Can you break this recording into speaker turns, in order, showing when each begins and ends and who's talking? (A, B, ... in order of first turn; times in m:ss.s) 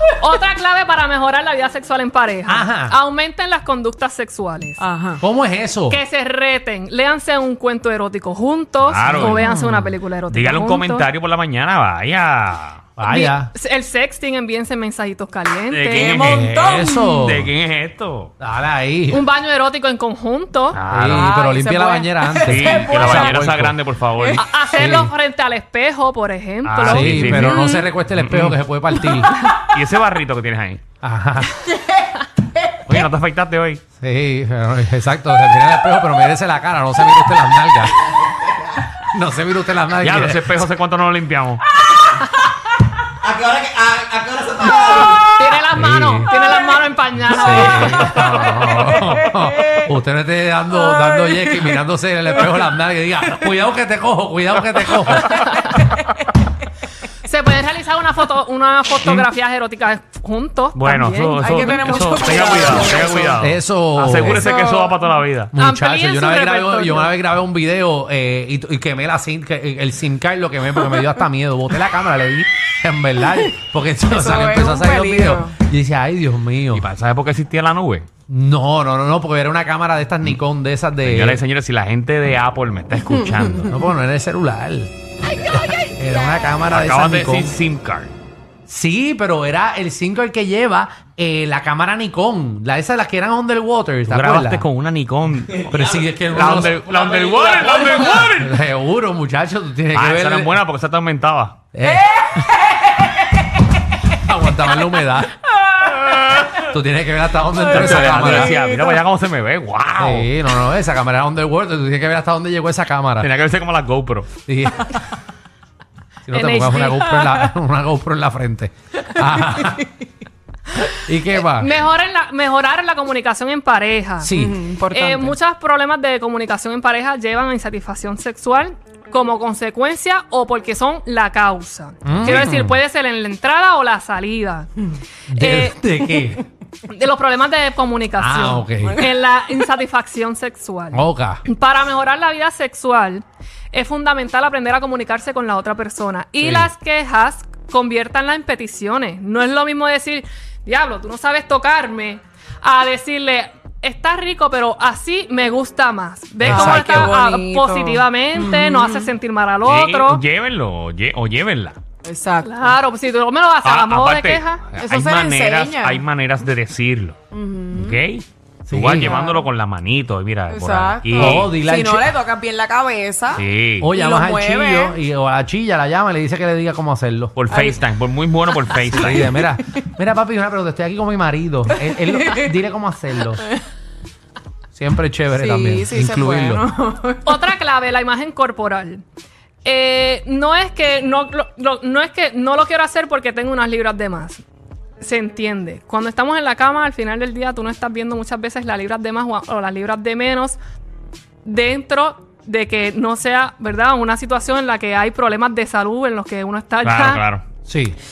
0:00.2-0:04.8 A
0:02.5-0:03.0 B
0:04.8-0:05.2 C
0:05.2-0:06.0 B
0:05.9-0:11.1 A
0:08.8-0:09.5 D
0:09.0-0:10.0 B
0:10.3-0:12.8 D
0:13.0-0:13.5 B
0:13.0-0:16.2 A
0:15.7-0:18.3 D
0:16.0-0:17.2 C
0:16.2-0:17.5 B
0:18.4-0:19.3 B
0:19.1-0:20.8 A
0:20.7-0:21.3 D
0:20.9-0:23.8 B
0:21.2-0:23.4 C
0:22.4-0:24.4 D
0:24.4-0:27.5 A
0:24.7-0:25.1 B
0:26.6-0:28.6 D
0:26.8-0:29.4 B
0:27.4-0:27.7 C
0:29.6-0:30.8 D
0:31.0-0:31.6 B
0:32.8-0:33.8 D
0:34.0-0:38.1 B
0:39.0-0:40.6 B
0:40.0-0:41.7 D
0:43.2-0:45.3 E
0:45.0-0:48.2 A
0:45.7-0:46.3 B
0:47.2-0:55.4 B
0:48.2-0:48.6 D
0:50.7-0:51.8 C
0:55.3-0:55.8 A
0:57.2-1:02.7 A
0:59.0-0:59.3 D
1:00.8-1:05.5 D
1:01.4-1:03.3 C
1:03.4-1:04.5 B
1:04.3-1:05.0 C
1:05.5-1:16.9 B
1:05.6-1:07.1 A
1:14.1-1:15.5 C
1:16.7-1:18.1 D
1:18.3-1:21.4 B
1:21.0-1:23.7 D
1:23.6-1:24.9 B
1:25.5-1:27.6 B
1:26.7-1:28.1 D
1:28.7-1:34.7 B
1:34.1-1:38.6 D
1:35.7-1:37.0 B
1:36.8-1:38.0 E
1:38.2-1:40.6 B
1:39.9-1:41.6 D
1:41.7-1:42.1 B
1:41.9-1:43.2 C
1:44.1-1:45.4 B
1:45.8-1:46.7 D
1:46.6-1:48.6 B
1:47.7-1:50.3 D
1:47.9-1:49.0 C
1:50.0-1:53.3 B
1:53.2-1:54.3 D
1:54.5-1:55.0 B
1:56.3-1:59.9 B
1:56.3-1:57.0 A
2:00.9-2:01.8 B
2:01.3-2:04.3 A
2:04.2-2:04.6 B
2:04.4-2:05.4 C
2:04.9-2:14.7 A
2:12.0-2:12.8 B
2:15.3-2:16.4 B
2:15.4-2:15.8 A
2:16.9-2:40.2 A
2:18.2-2:19.0 B
2:20.9-2:21.4 B
2:26.4-2:26.7 B
2:36.4-2:37.1 B
2:36.5-2:38.0 C
2:36.6-2:37.0 D
2:38.7-2:39.1 C
2:39.6-2:41.8 D
2:42.0-2:42.7 C
2:42.4-2:44.6 A
2:43.6-2:47.2 D
2:44.8-2:46.0 C
2:47.3-2:48.0 C
2:47.7-2:51.6 D
2:48.7-2:49.2 B
2:49.0-2:49.4 C
2:50.5-2:53.4 C
2:51.2-2:52.1 B
2:53.4-2:53.9 D
2:53.8-2:57.3 B
2:54.0-2:55.0 C
2:57.4-2:59.3 D
2:57.5-2:57.8 C
2:58.9-3:03.4 B
3:01.8-3:02.5 C
3:04.8-3:06.7 B
3:05.3-3:07.4 C
3:07.2-3:09.0 A
3:09.6-3:14.4 A
3:15.0-3:20.6 A
3:21.4-3:27.2 A
3:26.8-3:27.4 D
3:27.7-3:28.0 B